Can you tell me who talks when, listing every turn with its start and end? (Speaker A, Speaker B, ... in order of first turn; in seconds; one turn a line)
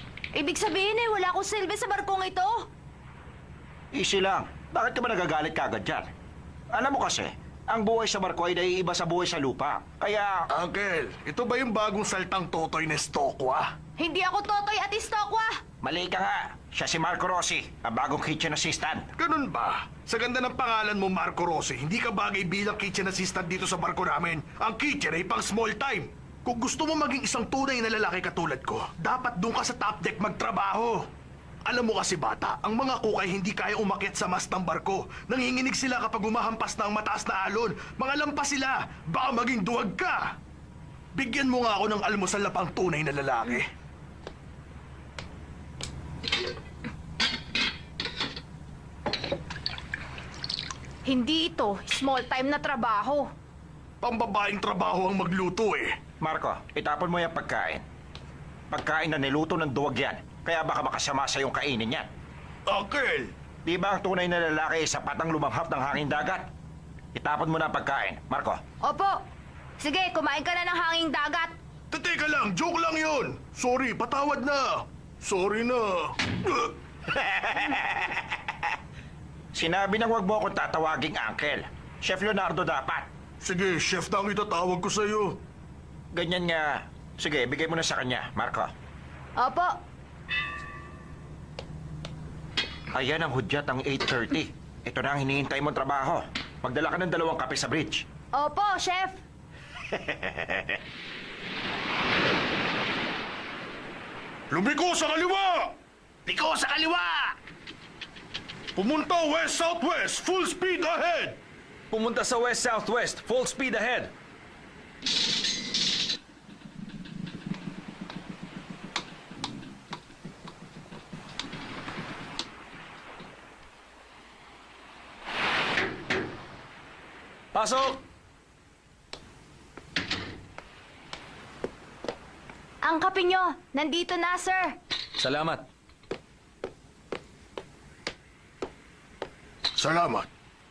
Speaker A: 0.3-2.6
Speaker B: 3.9-6.0
Speaker B: 6.7-10.4
Speaker C: 10.5-13.7
Speaker A: 14.0-15.6
Speaker B: 15.8-19.1
Speaker C: 19.2-31.0
Speaker C: 31.6-40.3
Speaker C: 41.1-43.7
Speaker A: 51.0-53.3
Speaker C: 54.0-55.9
Speaker B: 56.2-57.8
Speaker B: 58.7-62.1
Speaker C: 62.7-63.3
Speaker B: 63.6-66.5
Speaker B: 67.1-68.6
Speaker A: 68.8-69.2
Speaker A: 69.8-71.5
Speaker C: 71.9-76.7
Speaker B: 77.1-78.8
Speaker B: 79.5-83.1
Speaker C: 83.4-85.4
Speaker B: 86.1-88.7
Speaker A: 89.4-89.8
Speaker B: 92.9-98.0
Speaker A: 98.3-99.2
Speaker B: 99.9-100.8
Speaker C: 104.5-105.7
Speaker C: 106.2-107.3
Speaker C: 108.8-111.4
Speaker D: 111.9-114.1
Speaker D: 127.5-128.0
Speaker A: 132.8-134.8
Speaker D: 135.2-135.6
Speaker C: 139.8-140.3